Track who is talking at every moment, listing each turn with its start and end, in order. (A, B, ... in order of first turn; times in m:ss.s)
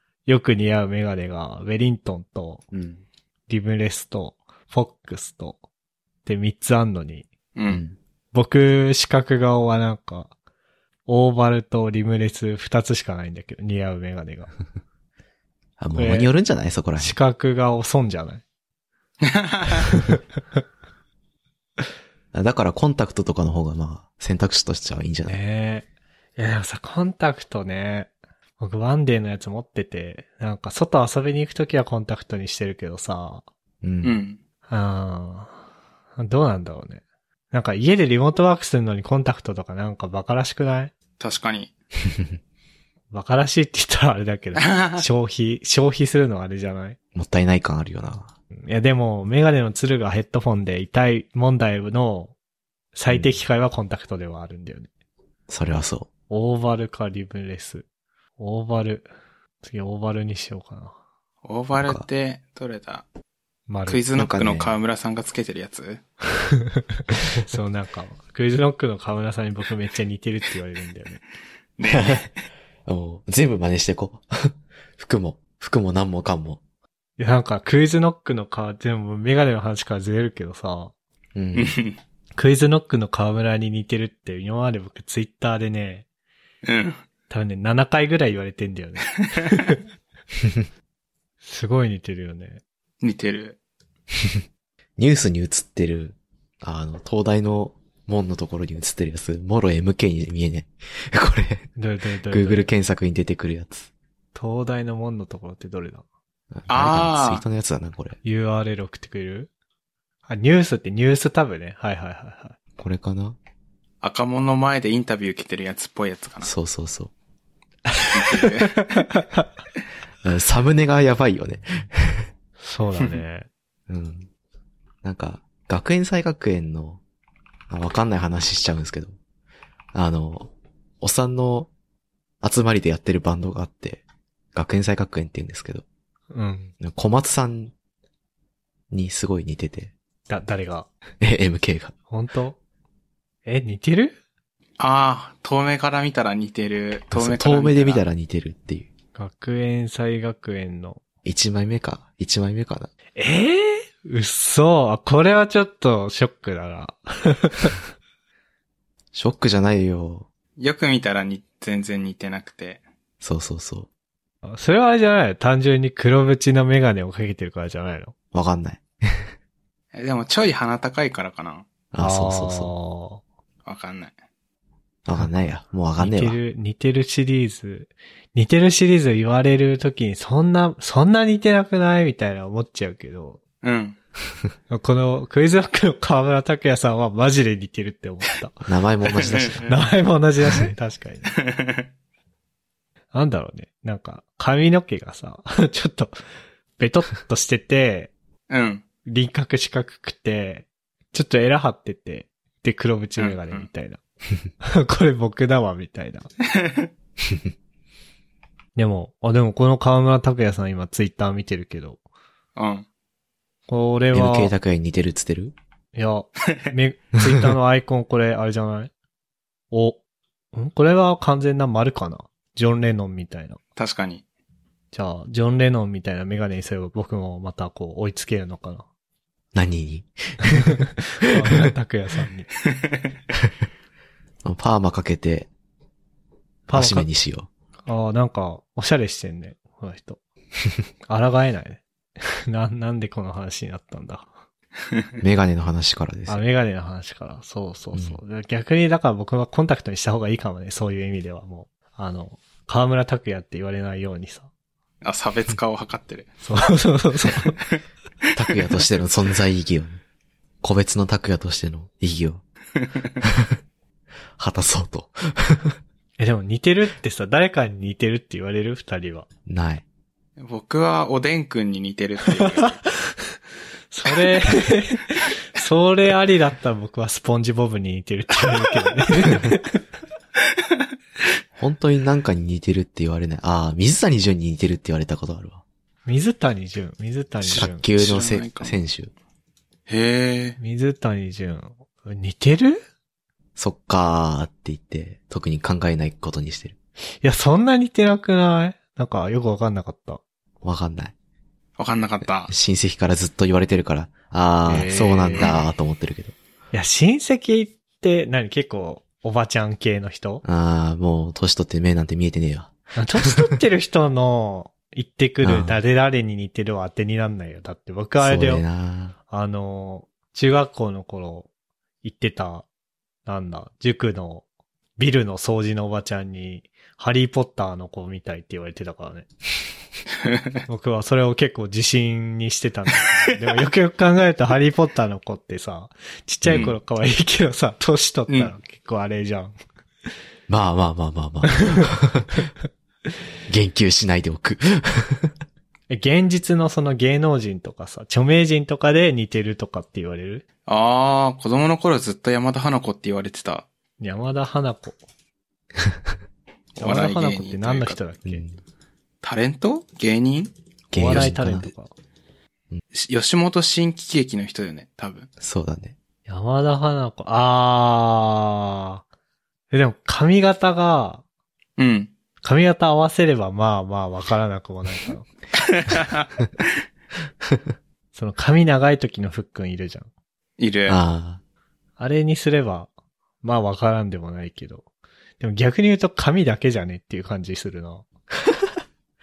0:00.2-0:02.6 A
0:02.7-0:03.0 B
0:03.5-0:05.6 A
0:06.2-0:07.3 A
0:07.6-0:07.8 C
0:07.7-0:08.0 B
0:08.3-0:10.3 A
0:11.1-0:14.5 A
0:15.8-0:17.2 B
0:15.9-0:16.3 A
0:17.0-0:18.4 A
0:19.2-0:19.8 C
0:19.9-0:20.2 A
0:22.3-0:25.4 B
0:25.3-0:33.4 A
0:33.8-0:34.2 B
0:34.0-0:34.4 C
0:34.7-0:35.6 A
0:36.2-0:40.9 A
0:41.2-0:41.7 C
0:43.1-0:47.0 A
0:44.6-0:45.0 C
0:47.1-0:48.3 B
0:48.6-0:52.3 A
0:52.9-0:54.9 A
0:53.1-0:53.4 B
0:55.5-0:56.1 B
0:56.3-0:57.8 A
0:58.4-0:59.1 A
0:59.6-1:01.0 A
1:01.4-1:03.0 C
1:01.8-1:02.0 B
1:03.7-1:04.0 A
1:03.8-1:06.0 C
1:04.1-1:04.7 B
1:06.5-1:11.2 A
1:11.8-1:12.3 C
1:11.9-1:12.3 B
1:12.8-1:16.6 B
1:17.2-1:20.9 A
1:21.3-1:21.8 B
1:21.5-1:22.0 C
1:22.4-1:26.0 A
1:26.6-1:27.0 C
1:27.3-1:29.8 A
1:31.4-1:32.6 A
1:33.0-1:33.6 C
1:35.0-1:41.7 B
1:41.8-1:42.7 A
1:42.3-1:43.9 B
1:44.3-1:46.0 A
1:46.6-1:48.2 B
1:46.7-1:47.4 C
1:48.2-1:49.5 A
1:50.3-1:52.6 A
1:52.8-1:53.4 B
1:54.0-1:56.5 C
1:56.4-1:57.1 B
1:57.9-1:58.4 A
1:58.1-1:59.0 C
1:59.1-1:59.4 A
2:00.2-2:02.2 B
2:02.6-2:03.5 A
2:03.9-2:04.3 B
2:05.0-2:07.0 B
2:07.7-2:09.1 B
2:09.9-2:10.5 B
2:11.0-2:11.7 B
2:12.4-2:14.0 B
2:14.5-2:15.8 B
2:16.3-2:16.7 A
2:16.8-2:17.7 B
2:18.9-2:19.9 B
2:20.3-2:20.9 A
2:21.2-2:21.9 B
2:22.1-2:22.6 A
2:23.4-2:24.2 A
2:24.8-2:28.0 C
2:27.1-2:28.9 B
2:29.1-2:31.0 A
2:31.2-2:32.9 B
2:33.2-2:37.8 A
2:39.1-2:40.3 B
2:40.6-2:42.8 C
2:43.2-2:43.9 B
2:44.4-2:48.1 A
2:48.3-2:48.8 B
2:49.9-2:51.7 C
2:51.9-2:52.7 B
2:52.0-2:53.2 A
2:53.6-2:54.1 C
2:55.0-2:56.4 B
2:56.0-3:03.4 A
3:03.6-3:04.0 C
3:04.7-3:08.6 A
3:08.6-3:09.7 B
3:09.2-3:09.7 C
3:09.6-3:11.3 A
3:11.4-3:11.8 C
3:13.1-3:16.2 A
3:16.8-3:18.1 A
3:18.5-3:18.8 C
3:19.0-3:24.0 A
3:23.2-3:23.7 C
3:24.6-3:26.3 A
3:26.5-3:26.9 C
3:28.8-3:32.0 A
3:32.6-3:32.8 C
3:33.7-3:34.5 A
3:34.1-3:35.5 B
3:35.9-3:38.9 A
3:39.7-3:40.0 A
3:40.5-3:43.6 A
3:43.8-3:44.2 C
3:44.9-3:48.8 A
3:49.5-3:50.6 B
3:51.2-3:52.5 A
3:54.4-3:55.5 B
3:56.7-3:57.1 A
3:56.7-3:57.5 B
3:57.8-4:00.2 A
4:01.1-4:04.3 A
4:05.2-4:06.4 B
4:06.3-4:14.5 A
4:07.9-4:08.2 B
4:15.0-4:16.3 C
4:16.4-4:17.6 A
4:18.4-4:20.0 B
4:20.6-4:22.4 B
4:22.8-4:23.0 C
4:24.4-4:25.7 B
4:26.2-4:29.3 A
4:29.5-4:29.8 B
4:30.4-4:32.8 C
4:33.9-4:39.8 A
4:41.6-4:45.6 B
4:46.0-4:47.9 A
4:47.4-4:48.8 C
4:47.6-4:49.1 B
4:49.9-4:50.6 C
4:50.6-4:52.8 A
4:53.6-4:56.7 B
4:57.2-5:00.2 A
5:00.6-5:01.1 B
5:01.8-5:02.5 C
5:02.5-5:06.3 B
5:04.6-5:05.5 A
5:06.7-5:10.4 A
5:10.4-5:12.7 B
5:13.0-5:18.6 A
5:15.4-5:15.8 B
5:18.2-5:19.1 B
5:19.3-5:21.5 A
5:22.0-5:22.6 A
5:23.2-5:24.4 A
5:25.0-5:29.3 A
5:30.7-5:39.5 A
5:36.5-5:36.8 C
5:40.5-5:42.3 B
5:43.5-5:45.1 B
5:45.9-5:50.4 A
5:50.7-5:53.6 C
5:54.0-5:55.0 A
5:56.8-5:58.0 C
5:56.8-5:58.4 A
5:58.3-5:58.5 B
5:59.2-6:00.5 C
6:00.9-6:01.7 B
6:00.9-6:01.9 A
6:02.9-6:05.3 C
6:05.4-6:05.9 B
6:06.3-6:09.0 A
6:09.7-6:11.2 A
6:11.8-6:12.1 C
6:12.4-6:15.3 A
6:15.6-6:16.2 C
6:18.1-6:20.1 A
6:20.6-6:21.0 C
6:20.9-6:21.4 B
6:22.0-6:22.9 A
6:23.4-6:24.8 A
6:25.4-6:28.0 A